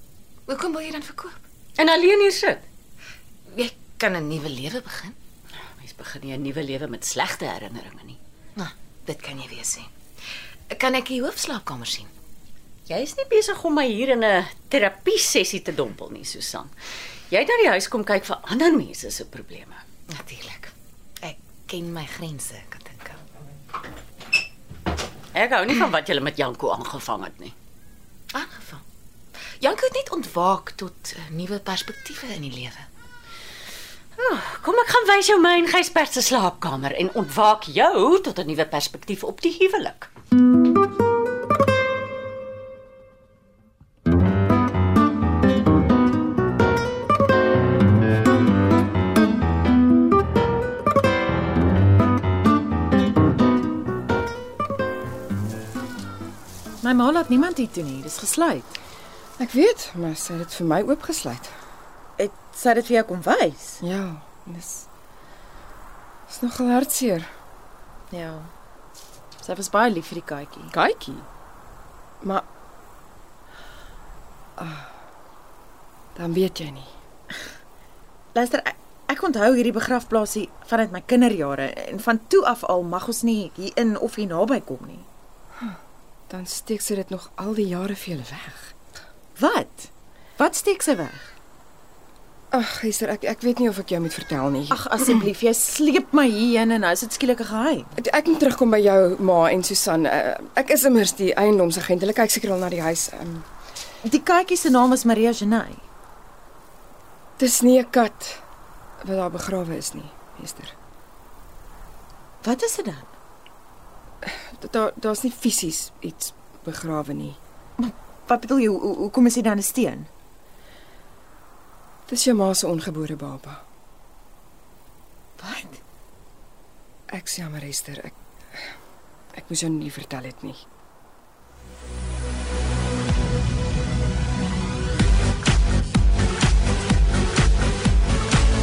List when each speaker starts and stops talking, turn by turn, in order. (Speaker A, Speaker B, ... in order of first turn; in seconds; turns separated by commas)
Speaker A: 0.5-1.4, Speaker B: 1.8-2.6, Speaker A: 3.5-5.2, Speaker B: 5.8-8.2, Speaker A: 8.6-9.9, Speaker A: 10.7-12.1, Speaker B: 12.9-16.7, Speaker B: 17.3-19.8, Speaker A: 20.1-23.2, Speaker B: 25.3-27.5, Speaker A: 28.3-28.8, Speaker A: 29.6-32.9, Speaker B: 34.2-40.1, Speaker C: 56.8-58.8, Speaker D: 59.4-61.5, Speaker C: 62.2-63.8, Speaker D: 63.8-64.9, Speaker D: 66.3-67.3, Speaker C: 68.1-68.5, Speaker C: 69.4-70.7, Speaker D: 70.7-71.3, Speaker D: 74.6-74.9, Speaker D: 76.2-76.9, Speaker C: 78.3-85.1, Speaker D: 86.3-88.7, Speaker C: 89.4-91.3, Speaker D: 92.5-95.1, Speaker C: 94.7-97.9, Speaker D: 98.0-103.5, Speaker C: 104.0-105.8, Speaker D: 107.4-108.4, Speaker D: 109.0-110.8, Speaker C: 112.4-113.1, Speaker D: 114.2-117.4, Speaker C: 117.8-120.1, Speaker D: 122.1-123.6, Speaker C: 125.4-125.8, Speaker D: 127.1-128.2, Speaker D: 129.3-130.6